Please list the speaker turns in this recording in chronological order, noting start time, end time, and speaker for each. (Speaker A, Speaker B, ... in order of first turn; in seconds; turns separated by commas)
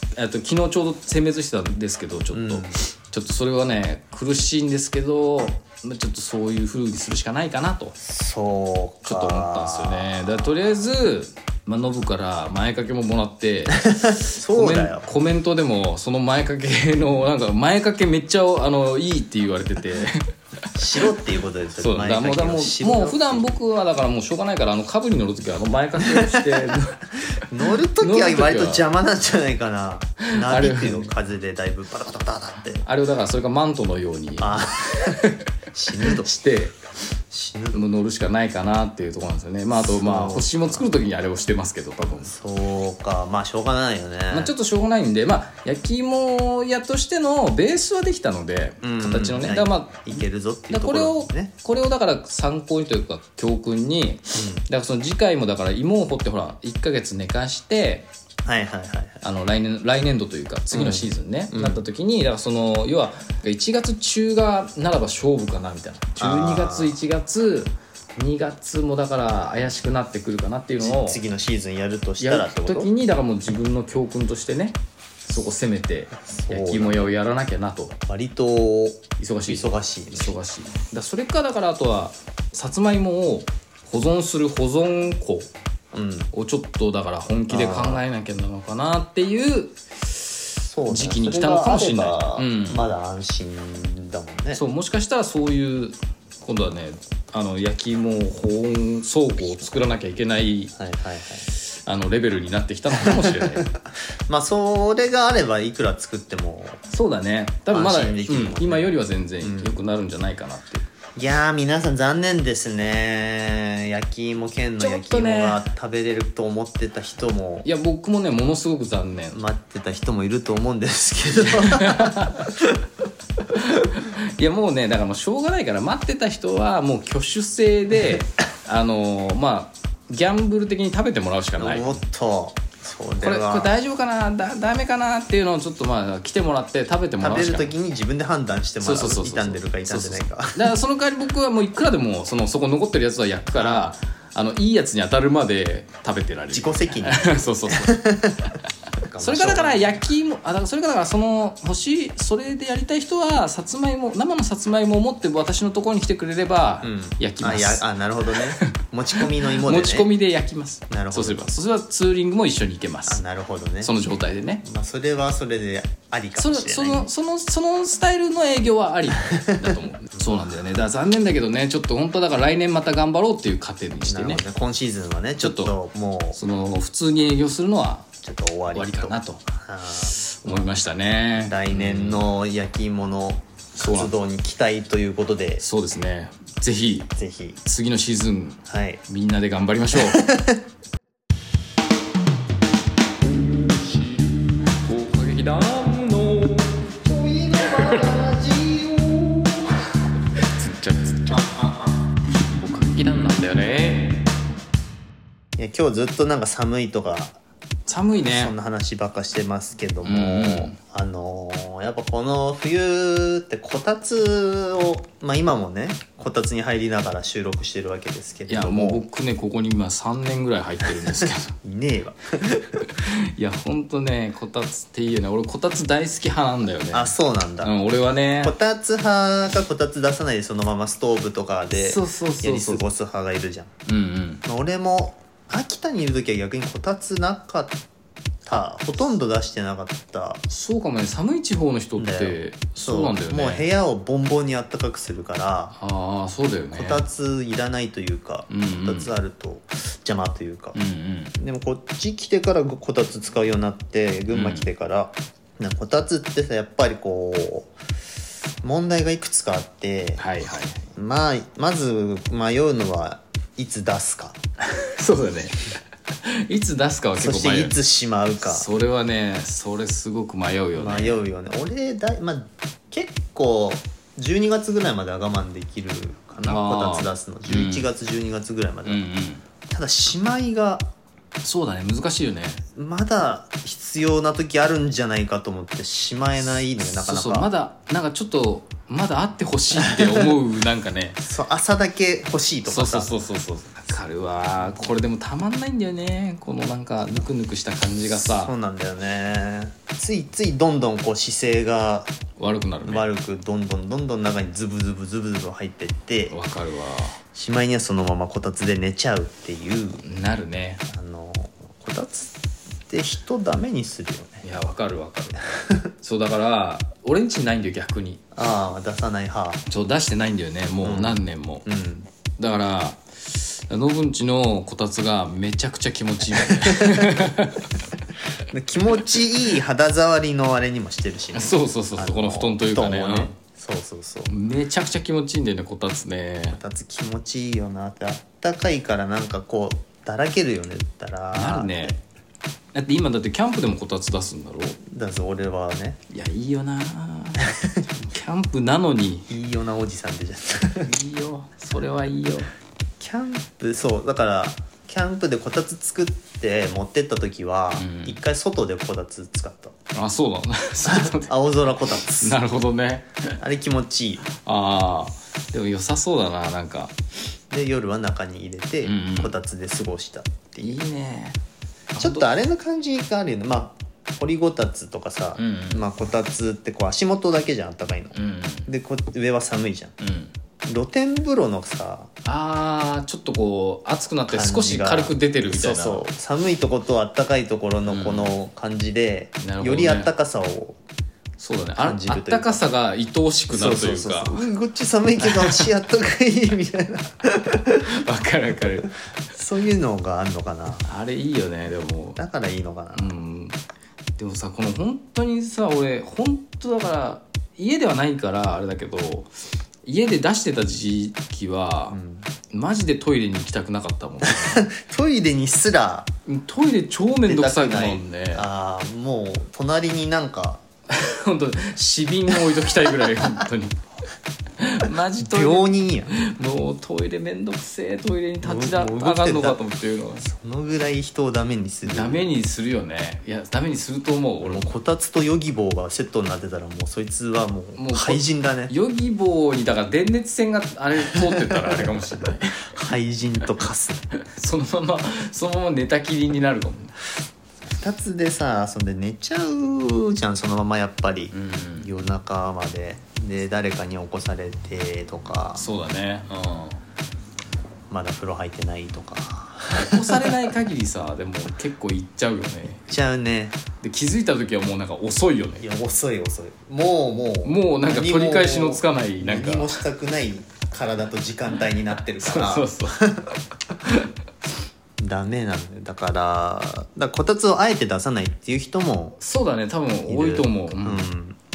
Speaker A: 0.2-8.0, Speaker B: 2.3-2.8, Speaker B: 8.0-10.5, Speaker A: 9.1-20.2, Speaker B: 13.7-15.1, Speaker B: 20.7-23.5, Speaker A: 21.8-27.0, Speaker B: 26.0-32.9, Speaker A: 28.0-28.9, Speaker A: 30.4-31.1, Speaker A: 32.9-36.8, Speaker B: 34.4-36.3, Speaker B: 37.3-37.8, Speaker A: 37.7-42.3, Speaker B: 39.8-40.9, Speaker B: 42.2-44.5, Speaker A: 44.3-50.1, Speaker B: 48.8-51.5, Speaker A: 50.7-58.1, Speaker B: 54.3-54.6, Speaker B: 58.5-59.2, Speaker A: 59.2-71.2, Speaker B: 60.7-61.8, Speaker B: 66.2-67.0, Speaker B: 70.8-72.9, Speaker A: 72.2-78.0, Speaker B: 76.1-77.1, Speaker B: 78.1-80.4, Speaker A: 79.2-85.5, Speaker B: 85.9-86.3, Speaker A: 86.3-92.8, Speaker B: 87.5-88.0, Speaker B: 90.7-94.6, Speaker A: 94.5-100.8, Speaker B: 100.8-101.5, Speaker A: 101.5-103.7, Speaker B: 102.9-106.8, Speaker A: 106.9-110.9, Speaker B: 107.7-109.8, Speaker B: 111.2-117.7, Speaker A: 114.8-115.6, Speaker A: 117.7-119.4, Speaker B: 119.3-122.8, Speaker A: 121.4-122.5, Speaker A: 123.5-132.0, Speaker B: 131.6-133.7, Speaker A: 133.2-137.7, Speaker B: 137.2-140.7, Speaker A: 138.8-148.0, Speaker B: 143.6-143.9, Speaker B: 146.5-150.0, Speaker A: 149.2-163.2, Speaker B: 156.8-160.1, Speaker B: 160.9-161.5, Speaker B: 163.1-163.9, Speaker A: 163.8-164.6, Speaker B: 164.6-167.1, Speaker A: 166.4-174.4, Speaker B: 169.2-170.5, Speaker B: 174.0-176.4, Speaker A: 175.4-175.8, Speaker A: 176.4-178.1, Speaker B: 178.2-180.8, Speaker A: 178.7-179.4, Speaker A: 180.2-182.3, Speaker B: 181.4-185.6, Speaker A: 183.8-184.1, Speaker A: 185.6-187.1, Speaker B: 187.2-187.6, Speaker A: 187.6-190.2, Speaker B: 188.7-189.0, Speaker B: 189.9-190.6, Speaker A: 193.2-196.9, Speaker B: 197.0-199.7, Speaker A: 197.6-198.2, Speaker A: 200.4-201.5, Speaker B: 201.3-201.9, Speaker A: 202.3-204.2, Speaker B: 205.6-207.4, Speaker A: 207.9-208.5, Speaker B: 208.3-219.0, Speaker A: 210.0-210.8, Speaker A: 218.5-221.6, Speaker B: 221.1-222.8, Speaker A: 222.8-228.6, Speaker B: 226.9-227.7, Speaker B: 228.4-233.7, Speaker A: 231.7-232.8, Speaker A: 233.9-234.4, Speaker B: 234.4-237.8, Speaker B: 238.4-240.4, Speaker A: 240.5-243.7, Speaker B: 242.0-245.8, Speaker A: 245.8-247.1, Speaker B: 246.7-250.8, Speaker A: 248.5-249.1, Speaker A: 250.8-251.4, Speaker B: 251.4-257.7, Speaker A: 254.3-254.7, Speaker B: 258.6-260.3, Speaker A: 260.2-260.8, Speaker B: 260.9-264.4, Speaker A: 264.7-265.6, Speaker A: 266.2-267.8, Speaker B: 267.2-268.7, Speaker A: 268.4-271.2, Speaker B: 270.8-279.0, Speaker A: 276.4-277.9, Speaker A: 278.9-279.4, Speaker B: 279.7-280.9, Speaker A: 281.4-282.6, Speaker B: 282.8-287.5, Speaker A: 286.8-291.2, Speaker B: 289.8-290.3, Speaker B: 291.2-293.1, Speaker A: 292.7-298.5, Speaker B: 298.2-302.1, Speaker A: 302.4-303.1, Speaker B: 302.8-306.4, Speaker A: 306.3-307.2, Speaker B: 307.3-310.0, Speaker A: 310.0-310.9, Speaker B: 310.9-312.3, Speaker B: 312.9-314.4, Speaker A: 314.4-315.4, Speaker B: 315.6-315.9, Speaker A: 316.0-318.2, Speaker B: 318.3-319.6, Speaker A: 319.7-321.6, Speaker B: 320.8-322.1, Speaker A: 322.4-327.8, Speaker B: 326.4-327.3, Speaker B: 328.3-334.3, Speaker A: 331.3-333.3, Speaker A: 334.3-336.6, Speaker B: 336.5-342.0, Speaker A: 341.3-342.0, Speaker A: 342.7-344.8, Speaker B: 344.9-346.0, Speaker A: 346.1-349.3, Speaker B: 347.4-347.9, Speaker B: 349.3-350.9, Speaker A: 350.8-352.5, Speaker B: 353.0-359.8, Speaker A: 357.8-358.2, Speaker A: 359.9-361.3, Speaker B: 360.9-362.4, Speaker A: 362.1-363.4, Speaker B: 363.4-364.3, Speaker A: 364.4-366.9, Speaker B: 367.5-370.8, Speaker A: 368.8-369.3, Speaker A: 370.6-371.4, Speaker A: 371.9-372.3, Speaker B: 372.0-379.9, Speaker A: 375.4-375.9, Speaker A: 378.1-378.7, Speaker A: 380.0-380.3, Speaker B: 380.7-382.1, Speaker A: 382.2-386.0, Speaker B: 384.3-390.8, Speaker A: 387.9-388.3, Speaker A: 389.4-390.1, Speaker A: 391.4-394.4, Speaker B: 391.8-392.6, Speaker B: 393.5-398.0, Speaker A: 395.2-395.7, Speaker A: 397.9-398.9, Speaker B: 399.3-400.9, Speaker A: 400.9-402.2, Speaker B: 402.2-403.1, Speaker A: 402.9-403.6, Speaker A: 404.2-409.3, Speaker A: 409.9-412.0, Speaker B: 411.9-412.3, Speaker A: 412.5-414.7, Speaker B: 414.2-416.1, Speaker A: 416.3-418.5, Speaker B: 417.3-420.6, Speaker A: 420.9-423.8, Speaker A: 424.6-430.2, Speaker B: 425.1-426.2, Speaker B: 428.4-429.6, Speaker B: 430.2-432.3, Speaker A: 431.9-434.7, Speaker B: 434.4-438.7, Speaker A: 437.8-442.6, Speaker B: 441.1-444.1, Speaker A: 444.2-446.9, Speaker B: 447.7-455.6, Speaker A: 451.3-451.9, Speaker A: 455.6-456.8, Speaker B: 457.9-460.3, Speaker A: 459.7-462.9, Speaker B: 462.9-463.6, Speaker A: 463.8-465.7, Speaker B: 465.6-473.4, Speaker A: 467.4-469.8, Speaker A: 472.2-473.0, Speaker A: 473.8-474.1, Speaker B: 475.0-479.2, Speaker A: 479.2-481.1, Speaker B: 480.1-481.4